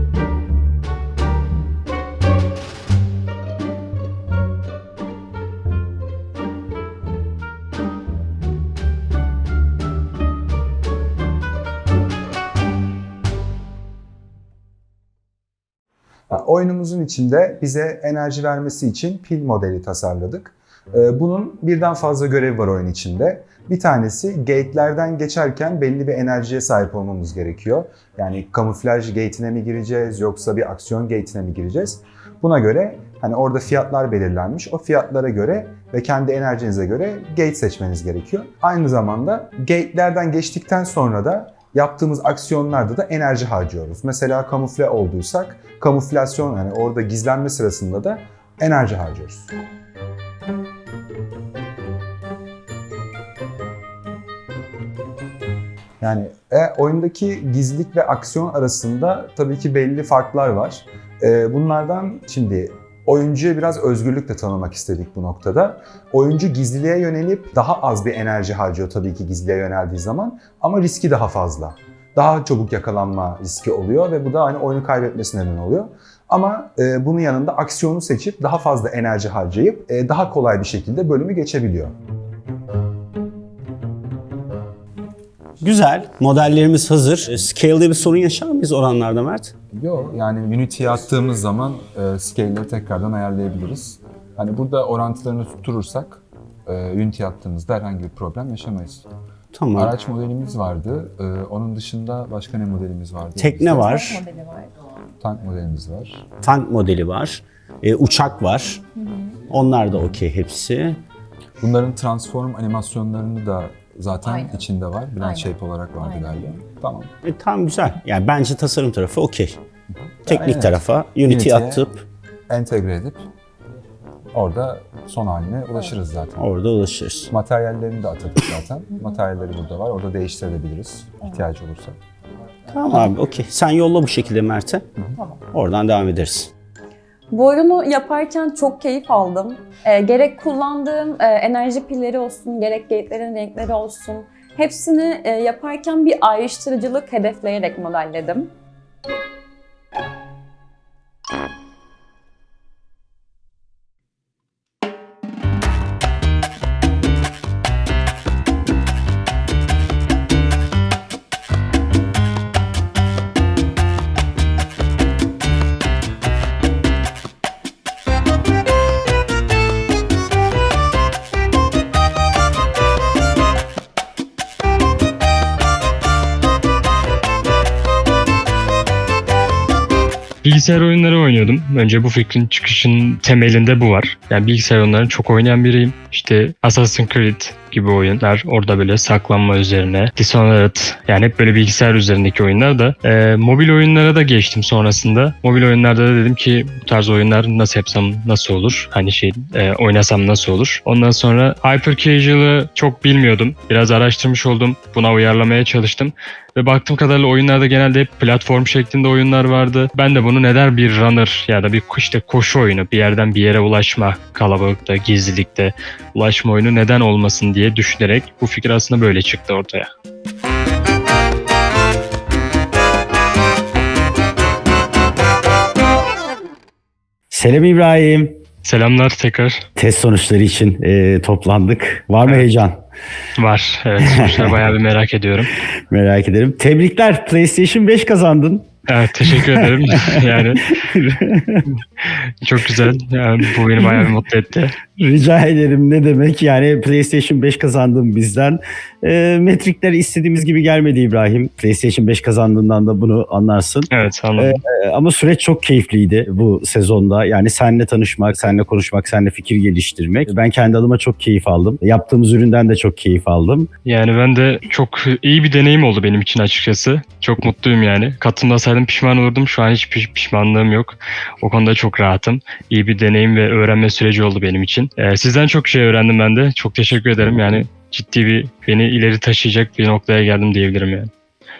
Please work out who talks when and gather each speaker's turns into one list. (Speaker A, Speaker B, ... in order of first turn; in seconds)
Speaker A: 16.3-49.5, 56.0-81.9, 89.7-99.0, 99.7-104.0, 105.2-106.2, 111.6-117.1, 120.2-121.8, 122.5-123.2, 124.3-126.4, 127.3-132.0
Speaker B: 85.6-89.5, 99.5-99.9, 103.3-104.2, 106.4-111.0, 117.2-119.6, 120.2-122.0, 126.3-127.3, 132.7-134.8, 135.5-136.5, 227.3-228.4, 229.8-232.8, 234.0-234.7, 235.7-238.7, 239.2-241.7, 243.8-244.1, 244.9-263.7
Speaker C: 104.2-104.7, 137.3-148.5
Speaker D: 180.4-219.9, 228.6-229.6, 233.3-235.5, 238.9-240.8, 241.7-244.8, 253.9-254.5, 263.8-281.1